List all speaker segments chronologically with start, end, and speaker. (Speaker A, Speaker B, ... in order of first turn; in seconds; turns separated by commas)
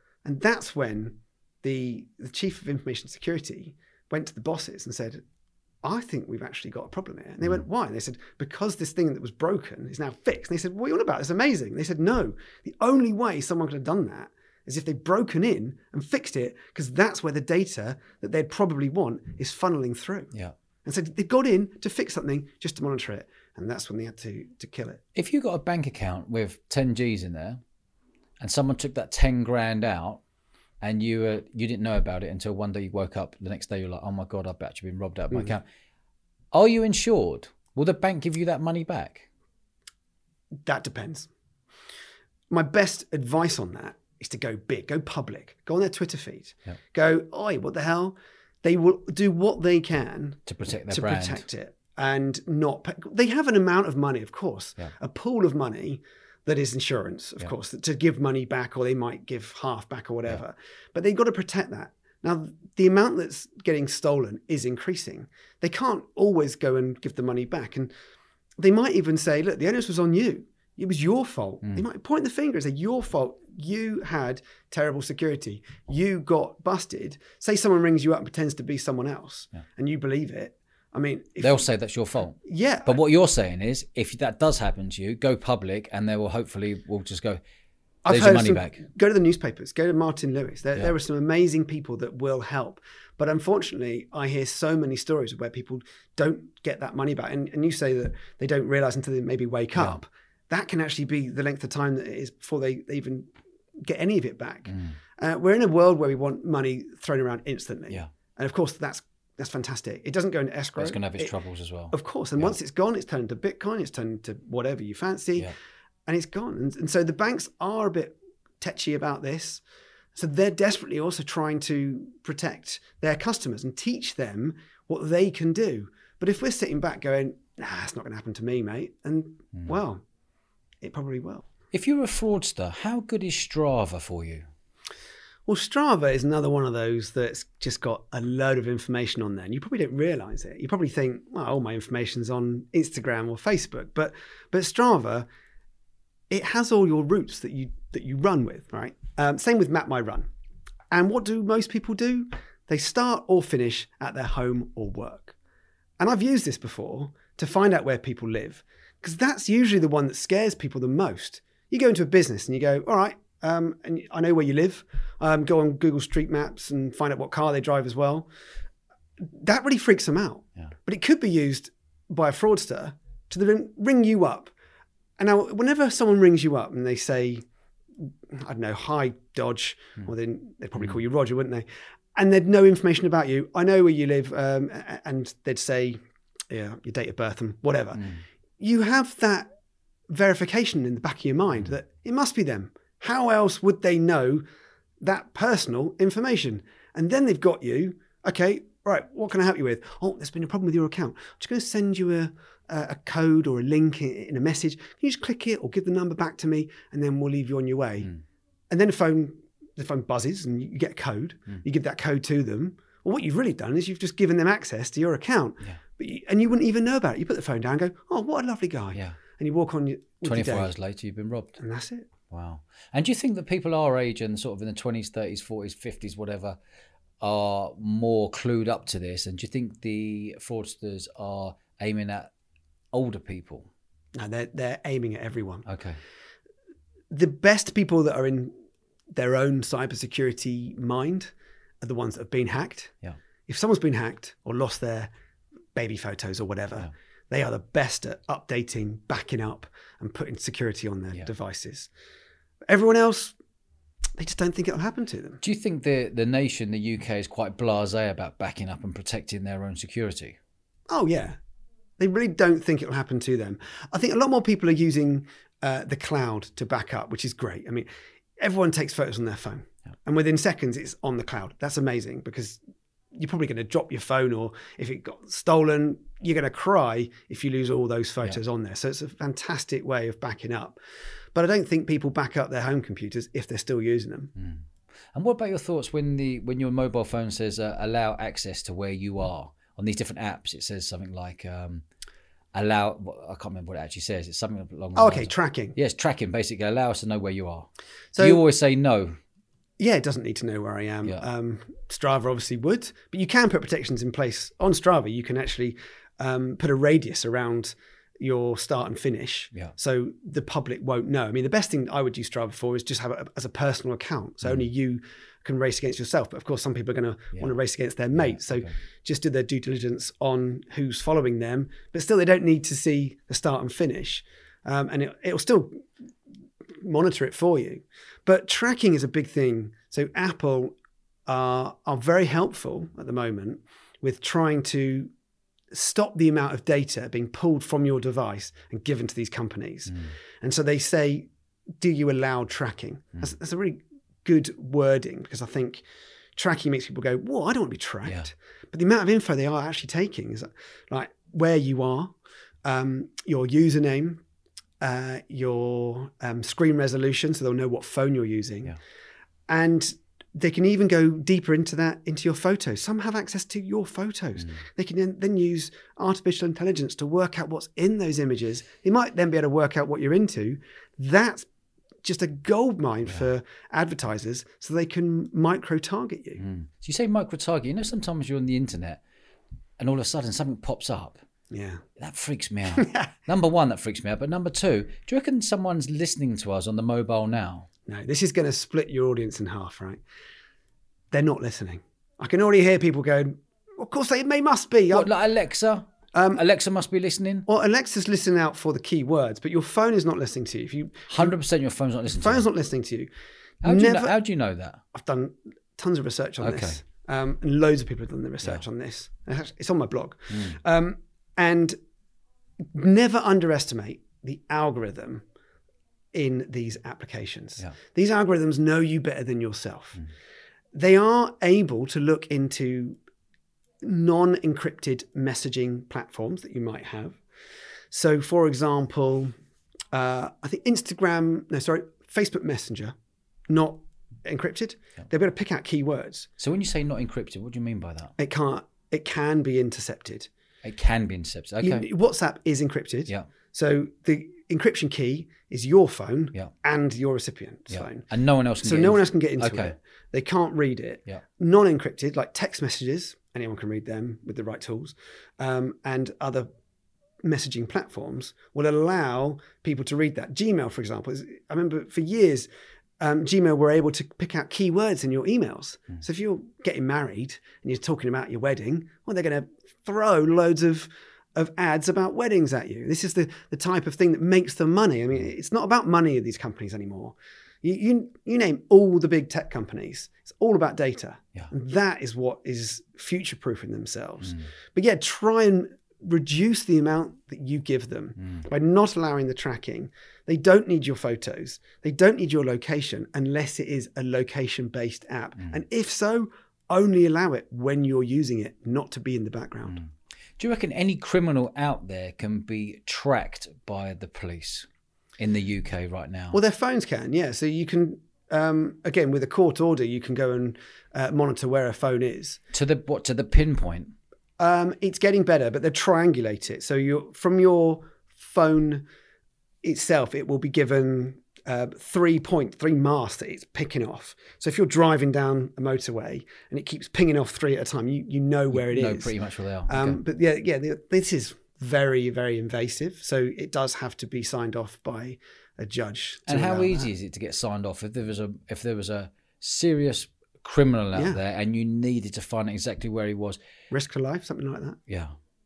Speaker A: 0.2-5.2, Speaker A: 5.8-20.3, Speaker A: 20.8-25.0, Speaker B: 25.1-27.6, Speaker B: 28.4-30.2, Speaker B: 30.8-35.6, Speaker B: 36.5-39.2, Speaker A: 40.6-41.3, Speaker A: 42.5-67.9, Speaker B: 50.5-51.5, Speaker A: 68.6-81.6, Speaker B: 81.4-87.4, Speaker A: 82.4-83.0, Speaker A: 88.0-103.3, Speaker B: 88.1-88.8, Speaker A: 103.8-111.3, Speaker B: 104.7-105.0, Speaker B: 110.8-112.5, Speaker A: 111.9-115.5, Speaker A: 116.1-119.6, Speaker A: 120.1-130.0, Speaker A: 130.8-131.4, Speaker B: 131.7-134.4, Speaker A: 135.5-145.3, Speaker A: 146.3-150.3, Speaker A: 150.9-155.3, Speaker A: 156.0-168.3, Speaker A: 169.2-174.5, Speaker A: 175.2-177.4, Speaker A: 178.0-186.0, Speaker A: 186.5-189.5, Speaker B: 187.9-188.2, Speaker A: 190.1-194.4, Speaker A: 195.0-208.1, Speaker A: 208.7-220.7, Speaker B: 220.2-221.6, Speaker A: 221.6-222.1, Speaker B: 222.3-226.6, Speaker B: 227.2-232.3, Speaker B: 232.9-233.7, Speaker A: 234.1-235.7, Speaker B: 235.7-236.0, Speaker A: 237.1-238.5, Speaker A: 239.1-242.9, Speaker A: 243.5-245.1, Speaker A: 245.7-251.9, Speaker A: 252.7-253.4, Speaker A: 254.2-255.4, Speaker B: 255.4-260.4, Speaker A: 260.9-261.4, Speaker A: 262.0-267.9, Speaker A: 268.4-272.6, Speaker A: 273.1-280.8, Speaker A: 281.3-284.3, Speaker B: 284.4-291.8, Speaker B: 292.5-299.2, Speaker A: 294.9-295.8, Speaker A: 298.1-298.4, Speaker A: 299.8-325.9, Speaker B: 318.2-318.7, Speaker A: 326.8-330.7, Speaker A: 331.3-335.1, Speaker A: 335.7-341.3, Speaker A: 341.8-345.8, Speaker A: 346.4-354.2, Speaker A: 354.8-358.8, Speaker A: 359.5-371.5, Speaker A: 372.0-376.4, Speaker B: 376.4-379.0, Speaker B: 379.8-381.2, Speaker A: 381.5-381.8, Speaker B: 382.0-387.7, Speaker A: 382.7-383.1, Speaker A: 387.9-390.0, Speaker A: 391.1-395.1, Speaker B: 394.9-397.4, Speaker A: 396.1-396.4, Speaker A: 397.5-401.3, Speaker B: 401.1-402.4, Speaker A: 402.1-403.1, Speaker B: 403.6-404.8, Speaker A: 403.6-404.1, Speaker A: 404.9-411.8, Speaker B: 406.4-406.8, Speaker B: 410.3-410.6, Speaker A: 412.7-415.2, Speaker A: 416.1-420.0, Speaker A: 420.7-423.0, Speaker A: 423.8-427.2, Speaker A: 427.9-429.3, Speaker A: 429.9-432.9, Speaker A: 433.5-436.3, Speaker B: 436.4-438.1, Speaker A: 438.2-440.3, Speaker B: 440.6-441.9, Speaker A: 441.6-448.0, Speaker B: 447.7-449.7, Speaker A: 448.6-456.5, Speaker A: 457.2-462.5, Speaker A: 463.0-499.8, Speaker B: 500.4-506.4, Speaker A: 506.3-512.4, Speaker B: 512.5-513.9, Speaker A: 514.4-518.8, Speaker A: 519.6-529.1, Speaker B: 528.5-530.0, Speaker A: 529.7-536.9, Speaker B: 536.3-543.4, Speaker A: 543.7-544.8, Speaker B: 544.9-545.1